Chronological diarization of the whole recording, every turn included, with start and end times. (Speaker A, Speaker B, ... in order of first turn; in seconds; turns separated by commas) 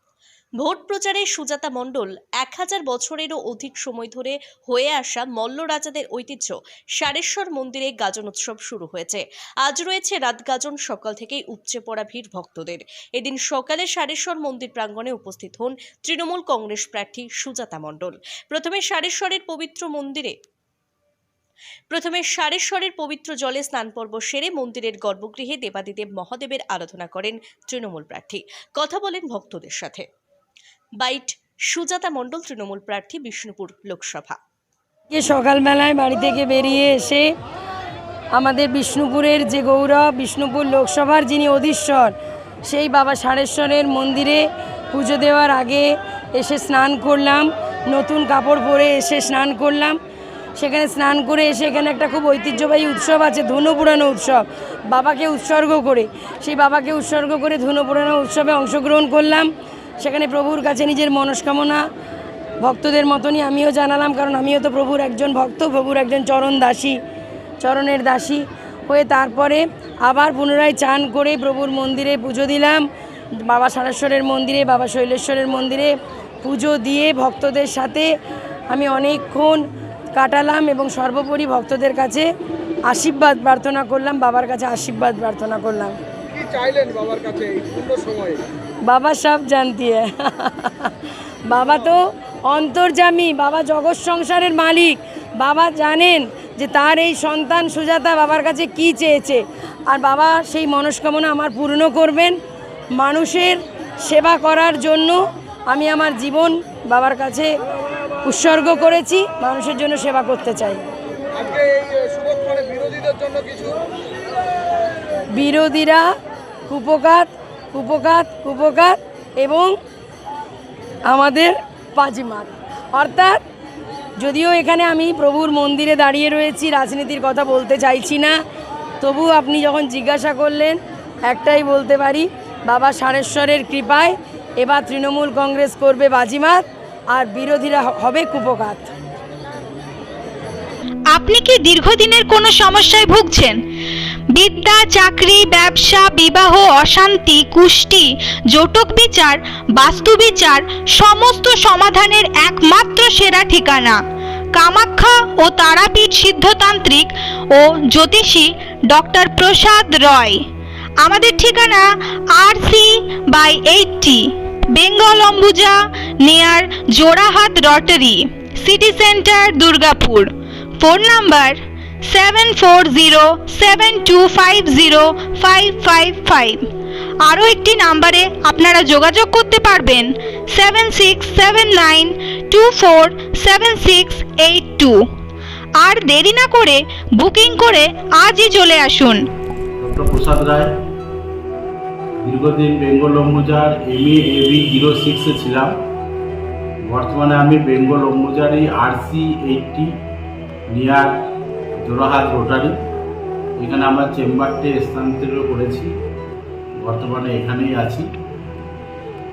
Speaker A: 0.6-20.4, Speaker A: 21.9-30.1, Speaker A: 31.0-34.4, Speaker B: 35.1-37.3, Speaker B: 38.4-42.1, Speaker B: 42.7-50.0, Speaker B: 50.6-59.5, Speaker B: 60.0-61.8, Speaker B: 62.6-67.0, Speaker B: 67.6-72.8, Speaker B: 73.4-78.1, Speaker B: 78.7-82.3, Speaker B: 82.9-86.0, Speaker C: 86.3-88.4, Speaker B: 88.9-90.9, Speaker B: 91.5-102.4, Speaker B: 102.9-107.5, Speaker B: 108.2-110.8, Speaker C: 111.4-113.8, Speaker B: 115.3-116.1, Speaker B: 116.7-119.7, Speaker B: 121.1-123.4, Speaker B: 124.2-128.3, Speaker B: 129.0-138.9, Speaker D: 141.1-143.6, Speaker D: 144.3-154.0, Speaker D: 154.6-160.4, Speaker D: 161.0-161.8, Speaker D: 162.3-170.3, Speaker D: 170.8-176.6, Speaker D: 177.2-184.9, Speaker D: 185.8-189.2, Speaker E: 189.8-190.7, Speaker E: 192.2-195.7, Speaker E: 196.9-199.9, Speaker E: 200.7-201.2, Speaker E: 201.8-202.8, Speaker E: 203.6-205.9, Speaker E: 206.8-208.1